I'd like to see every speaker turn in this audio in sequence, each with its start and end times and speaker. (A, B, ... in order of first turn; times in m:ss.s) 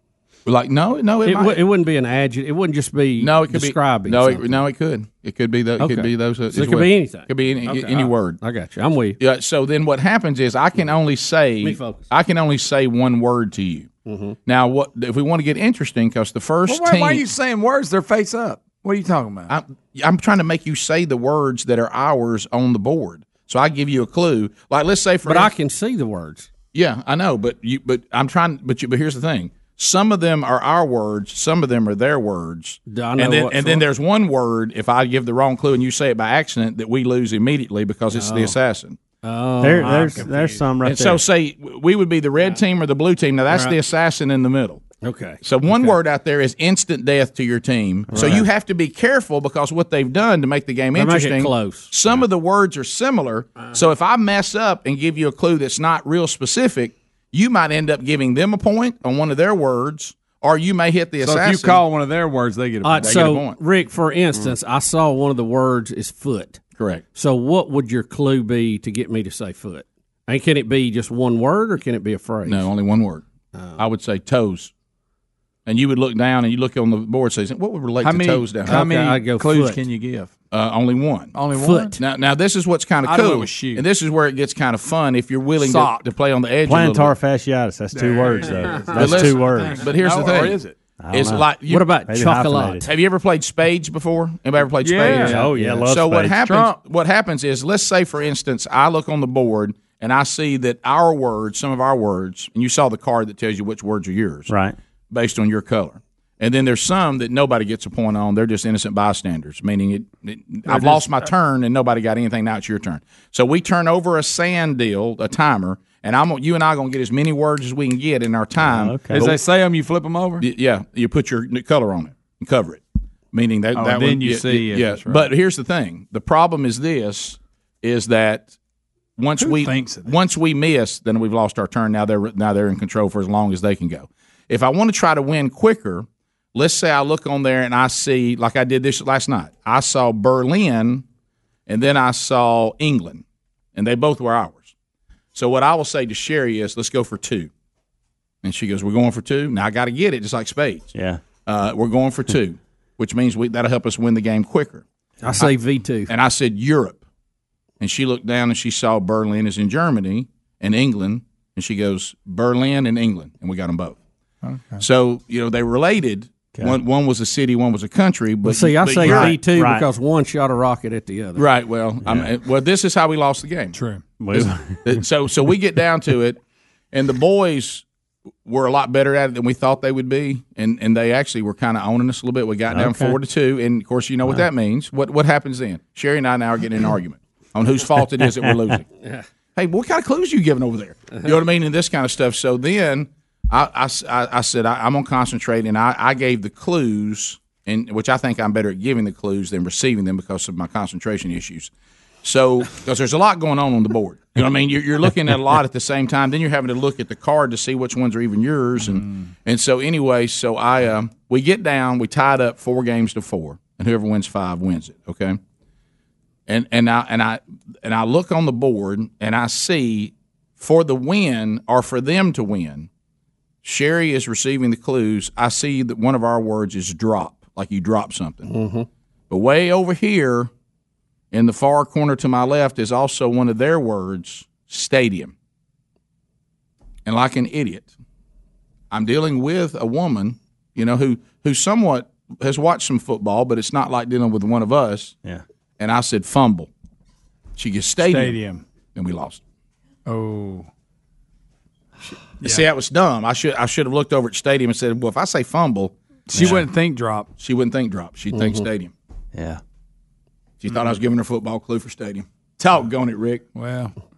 0:00.5-0:01.6 A
0:01.2-0:04.6 B
0:03.2-0:08.4 A
0:05.8-0:09.2 B
0:09.2-0:13.9 A
0:11.6-0:12.1 B
0:14.0-0:14.4 B
0:14.5-0:17.2 A
0:16.7-0:19.5 C
0:19.5-0:25.5 A
0:25.2-0:26.5 B
0:26.7-0:39.0 A
0:32.9-0:33.9 B
0:38.1-0:38.6 B
0:39.2-0:40.6 B
0:39.6-0:41.2 D
0:39.8-0:40.6 C
0:40.8-0:44.9 A
0:43.5-0:43.8 B
0:45.0-0:45.4 B
0:45.4-1:01.8 A
0:48.1-0:48.5 B
0:50.9-0:51.9 B
1:01.2-1:03.2 C
1:02.8-1:06.6 B
1:03.0-1:03.6 A
1:06.8-1:07.0 A
1:07.1-1:12.7 B
1:12.4-1:13.2 A
1:13.5-1:13.8 B
1:13.8-1:14.7 A
1:15.7-1:18.8 A
1:18.0-1:20.3 C
1:18.6-1:19.8 B
1:20.5-1:21.4 A
1:21.3-1:22.0 C
1:21.6-1:22.0 B
1:22.0-1:27.1 A
1:23.0-1:23.9 C
1:25.6-1:26.1 C
1:26.6-1:29.9 D
1:27.9-1:30.8 C
1:29.0-1:30.6 A
1:31.0-1:32.9 D
1:31.1-1:31.9 A
1:31.6-1:32.9 B
1:32.8-1:44.5 A
1:34.7-1:35.8 C
1:35.1-1:35.8 B
1:35.2-1:36.4 D
1:36.3-1:36.8 C
1:44.5-1:44.8 D
1:45.1-1:59.4 A
1:50.7-1:51.2 C
1:58.6-1:59.3 D
1:59.1-2:00.4 C
2:00.4-2:08.5 A
2:03.7-2:05.3 C
2:09.2-2:21.0 A
2:09.4-2:10.2 C
2:21.7-2:23.2 A
2:23.8-2:24.7 A
2:25.3-2:27.5 A
2:28.4-2:30.9 A
2:30.9-2:31.2 D
2:31.5-2:34.8 A
2:35.2-2:36.1 B
2:36.1-2:37.0 A
2:37.8-2:44.0 A
2:44.4-2:44.8 C
2:44.8-2:49.4 A
2:46.6-2:46.8 D
2:48.4-2:51.5 B
2:49.0-2:49.9 D
2:51.4-2:53.8 A
2:52.0-2:52.3 D
2:53.7-2:54.0 C
2:54.2-2:55.0 D
2:54.3-2:56.4 A
2:56.9-2:57.8 A
2:58.4-3:08.9 A
3:02.7-3:03.2 D
3:09.0-3:09.3 B
3:09.6-3:21.7 A
3:22.2-3:35.4 A
3:28.8-3:29.3 C
3:36.5-3:42.9 A
3:43.6-3:48.5 A
3:48.4-3:48.9 B
3:49.3-3:50.5 A
3:51.3-3:55.3 A
3:57.1-3:57.9 A
3:58.9-4:05.2 A
4:05.8-4:06.7 A
4:07.6-4:08.4 A
4:08.0-4:08.6 C
4:09.0-4:09.4 A
4:10.1-4:10.7 C
4:12.4-4:15.9 A
4:16.3-4:17.3 C
4:16.3-4:16.7 D
4:17.4-4:18.9 A
4:18.3-4:18.6 B
4:19.3-4:19.6 D
4:20.6-4:23.4 A
4:23.6-4:23.9 C